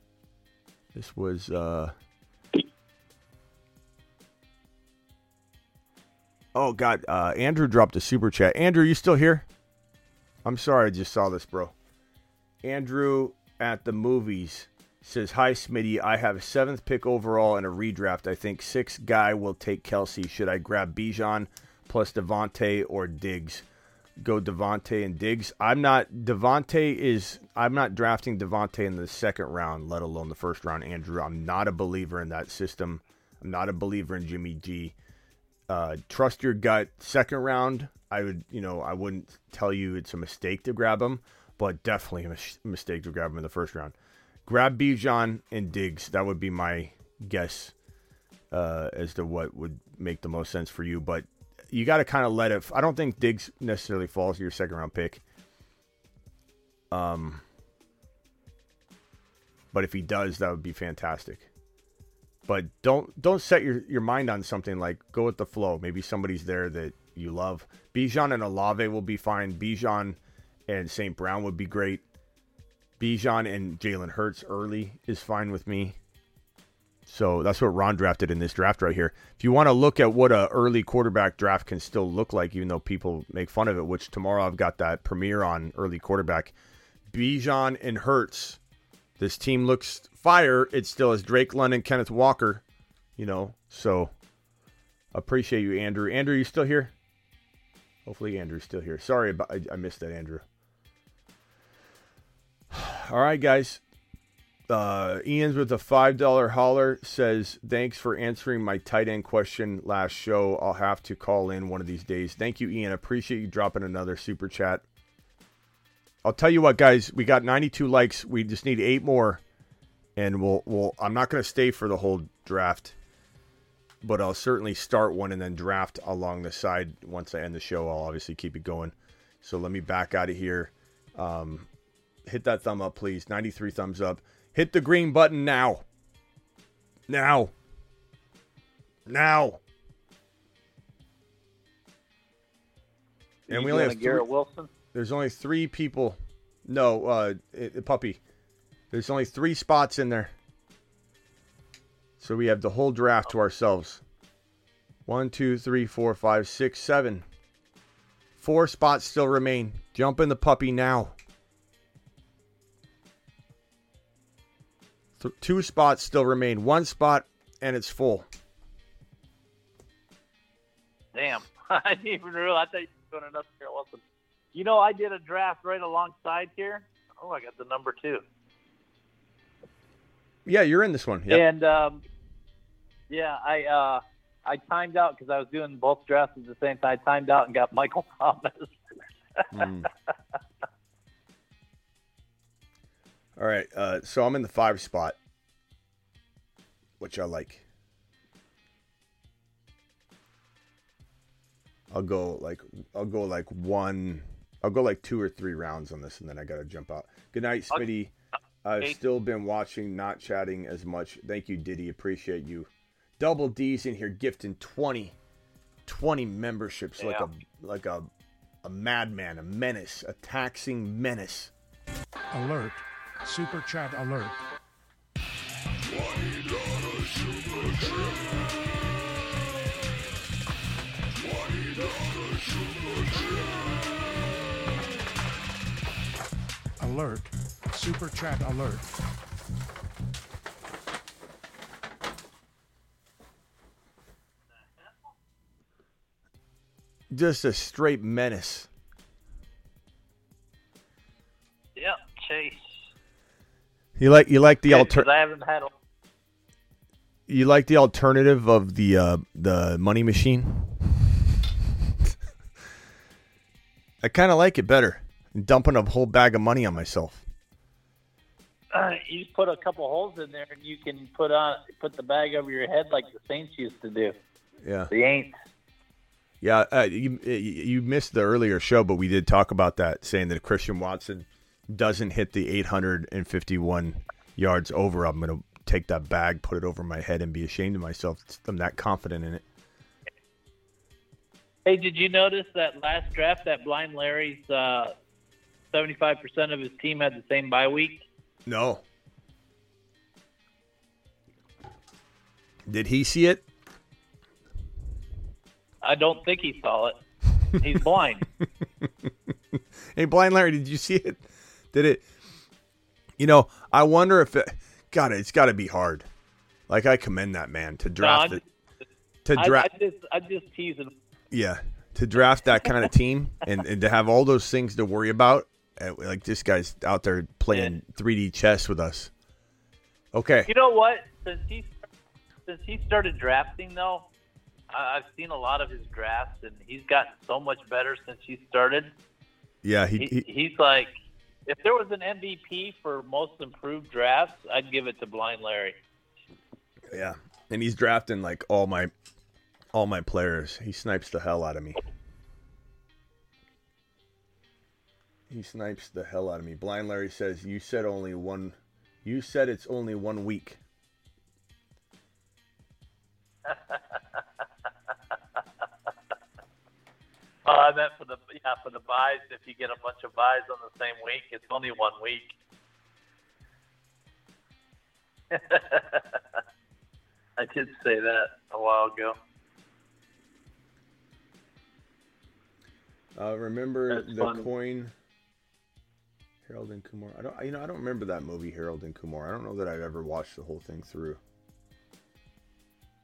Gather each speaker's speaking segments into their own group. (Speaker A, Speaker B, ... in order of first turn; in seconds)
Speaker A: 0.9-1.9, 6.5-9.5, 10.4-11.7, 12.6-23.6, 24.2-35.0, 35.7-44.0, 44.5-47.7, 48.5-55.2, 56.9-57.4, 59.7-61.5, 62.5-72.0, 73.0-76.0, 77.1-86.5, 87.1-88.6, 89.2-92.6, 93.2-94.1, 95.1-96.9, 98.1-100.4, 102.7-103.8, 104.7-114.8, 116.2-119.4, 120.2-122.9, 124.0-131.7, 132.3-135.8, 137.1-137.5, 139.1-139.6, 143.5-144.2, 144.9-148.2, 148.9-150.3, 152.2-154.0, 155.1-157.2, 158.4-161.2, 165.2-168.3, 180.5-181.4, 189.5-189.9, 193.4-195.2, 197.0-197.7, 201.9-208.1, 208.6-215.2, 215.9-218.1, 218.6-221.5, 247.1-248.7, 254.0-255.1, 257.3-261.0, 264.0-267.2, 274.6-274.9, 276.4-289.4, 298.5-298.8, 302.7-303.4, 309.9-312.0, 313.2-316.1, 316.7-318.4, 319.2-319.7, 321.3-329.1, 330.1-330.5, 339.6-340.3, 346.9-348.9, 349.7-351.8, 355.3-360.6, 383.2-384.9, 386.5-391.2
Speaker B: 143.5-144.7, 171.1-174.0, 174.5-178.2, 181.3-182.0, 183.1-188.8, 217.0-217.3, 251.8-252.6, 254.7-255.7, 268.7-274.2, 274.9-275.3, 291.6-294.9, 295.7-298.0, 305.8-307.0, 307.6-308.3, 318.0-318.4, 319.4-321.0, 330.5-331.8, 332.5-334.1, 334.7-338.9, 340.0-340.9, 341.5-345.8, 363.5-363.8, 367.5-372.3, 375.3-376.0, 377.4-379.2, 383.9-384.5
Speaker C: 222.3-224.4, 236.8-238.9